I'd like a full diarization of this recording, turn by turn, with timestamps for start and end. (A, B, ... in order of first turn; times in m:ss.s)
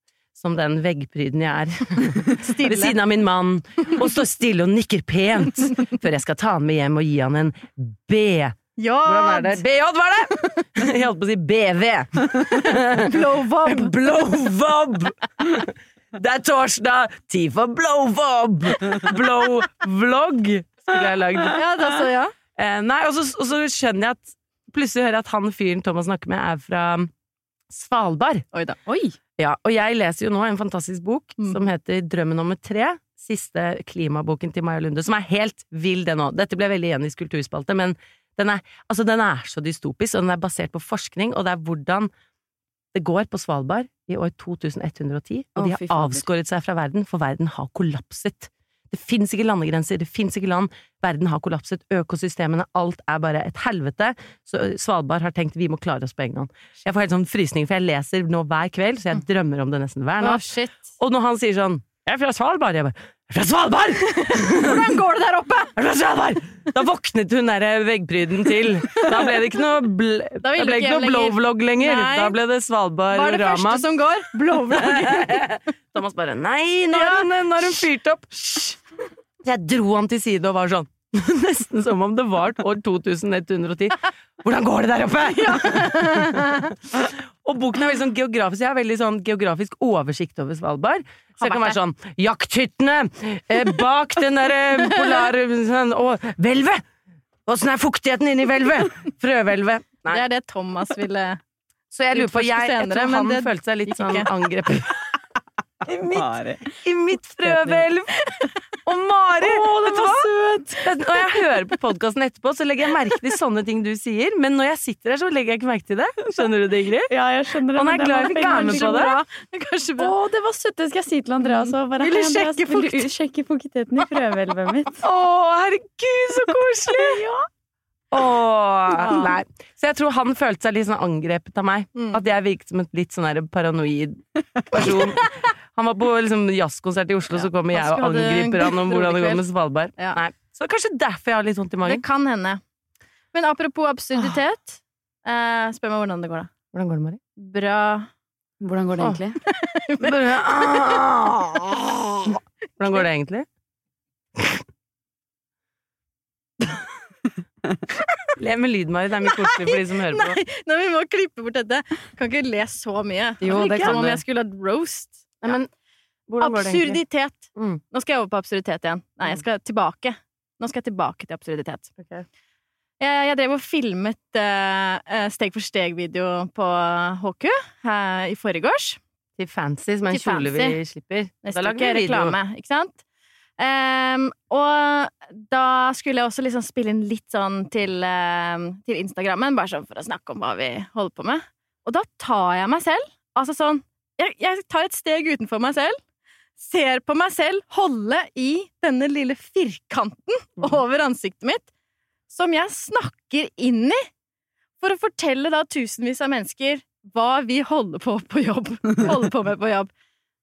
0:00.4-0:13.2 A
0:02.5-0:02.9 B
0:08.8-0:09.6 B
0:13.0-0:13.9 B
0:13.7-0:22.0 A
0:21.5-0:22.3 B
0:22.6-0:27.1 A
0:27.7-0:28.4 A
0:28.8-0:29.2 C
0:29.4-0:42.1 A
0:42.9-1:00.4 A
0:45.6-0:46.3 C
1:00.2-1:00.7 B
1:01.0-1:04.8 A
1:04.2-1:05.7 B
1:05.8-1:13.8 A
1:10.4-1:12.3 B
1:13.1-1:15.4 B
1:14.7-1:18.8 A
1:16.9-1:17.3 B
1:19.4-1:26.4 A
1:25.4-1:26.7 B
1:27.0-1:36.8 A
1:31.4-1:31.7 C
1:37.5-1:40.2 A
1:40.1-1:41.4 B
1:41.9-1:45.0 A
1:42.1-1:44.3 B
1:45.8-1:46.7 C
1:46.8-1:48.2 A
1:47.4-1:47.8 C
1:48.8-1:50.3 A
1:49.4-1:50.9 C
1:50.8-1:57.1 A
1:57.1-1:59.1 C
1:57.7-1:59.1 A
1:58.3-2:00.1 B
2:00.0-2:05.0 C
2:02.0-2:03.0 B
2:05.0-2:07.2 A
2:06.9-2:07.4 C
2:08.1-2:22.0 A
2:09.0-2:09.3 B
2:17.3-2:19.4 B
2:21.8-2:22.6 B
2:23.3-2:26.5 B
2:26.7-2:27.2 A
2:27.4-2:28.0 B
2:28.6-2:29.4 C
2:29.5-2:30.8 B
2:30.0-2:33.4 A
2:38.4-2:40.4 A
2:39.3-2:45.3 B
2:43.4-2:44.2 A
2:43.5-2:44.0 C
2:46.3-2:47.0 A
2:46.4-2:51.8 B
2:47.6-2:47.8 A
2:52.0-2:52.2 A
2:53.0-2:59.0 B
2:59.4-3:02.3 A
3:00.1-3:00.8 B
3:01.4-3:03.0 B
3:03.6-3:15.9 B
3:16.6-3:21.6 B
3:22.3-3:24.0 B
3:24.8-3:29.9 B